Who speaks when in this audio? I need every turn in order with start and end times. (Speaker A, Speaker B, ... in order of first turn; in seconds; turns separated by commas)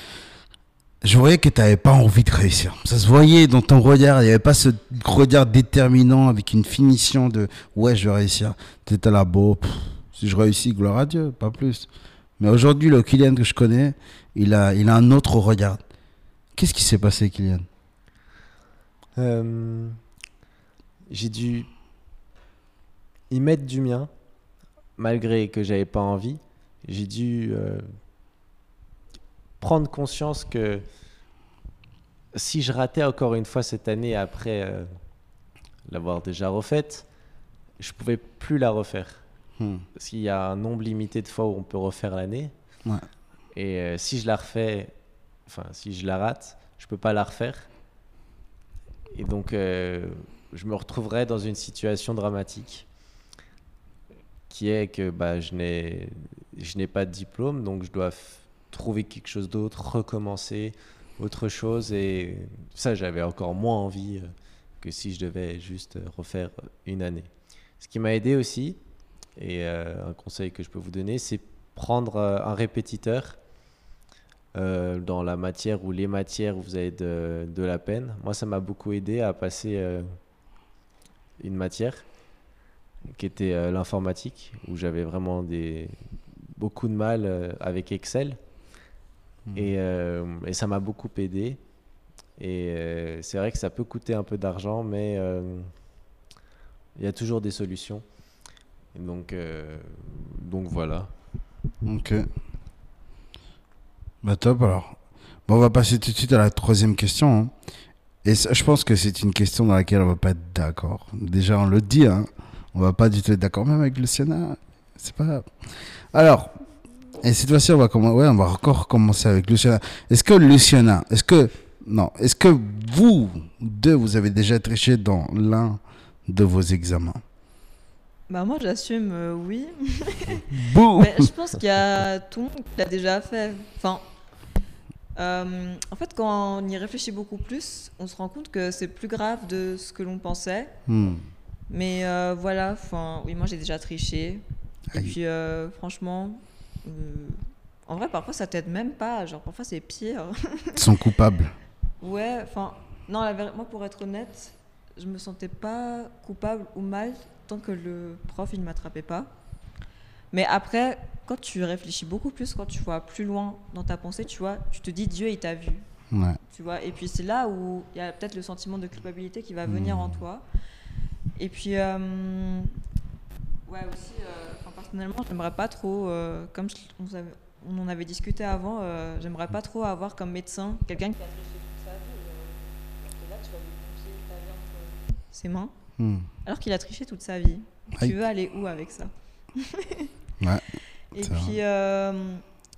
Speaker A: 1.0-11.9, Speaker A: 12.4-15.8, Speaker A: 16.6-17.7, Speaker B: 19.2-20.0, Speaker B: 21.1-21.7, Speaker B: 23.3-24.1, Speaker B: 25.0-27.9, Speaker B: 29.6-30.8, Speaker B: 32.3-35.0, Speaker B: 35.9-37.1, Speaker B: 37.8-39.2, Speaker A: 39.6-39.9, Speaker B: 40.0-42.5, Speaker B: 43.5-44.9, Speaker B: 45.5-47.7, Speaker B: 49.1-52.9, Speaker B: 54.5-68.8, Speaker B: 69.4-73.4, Speaker B: 74.5-80.2, Speaker B: 81.4-82.0, Speaker B: 83.1-88.4, Speaker A: 89.5-89.7, Speaker B: 89.5-91.6, Speaker B: 92.4-95.7, Speaker B: 97.0-98.0, Speaker B: 98.9-101.1, Speaker A: 101.8-102.3, Speaker A: 104.2-105.0, Speaker A: 105.5-107.5, Speaker A: 108.2-115.5, Speaker A: 116.1-116.5, Speaker A: 117.2-127.2, Speaker C: 128.3-134.1, Speaker A: 130.5-131.2, Speaker C: 135.2-140.8, Speaker A: 140.9-141.3, Speaker C: 141.7-150.8, Speaker A: 150.8-151.5, Speaker C: 152.0-159.3, Speaker C: 160.3-165.9, Speaker A: 166.1-166.4, Speaker C: 166.5-170.4, Speaker A: 169.7-170.2, Speaker C: 171.4-172.7, Speaker C: 173.7-185.7, Speaker A: 186.0-186.3, Speaker C: 186.4-190.1, Speaker C: 191.1-192.4, Speaker A: 191.2-191.6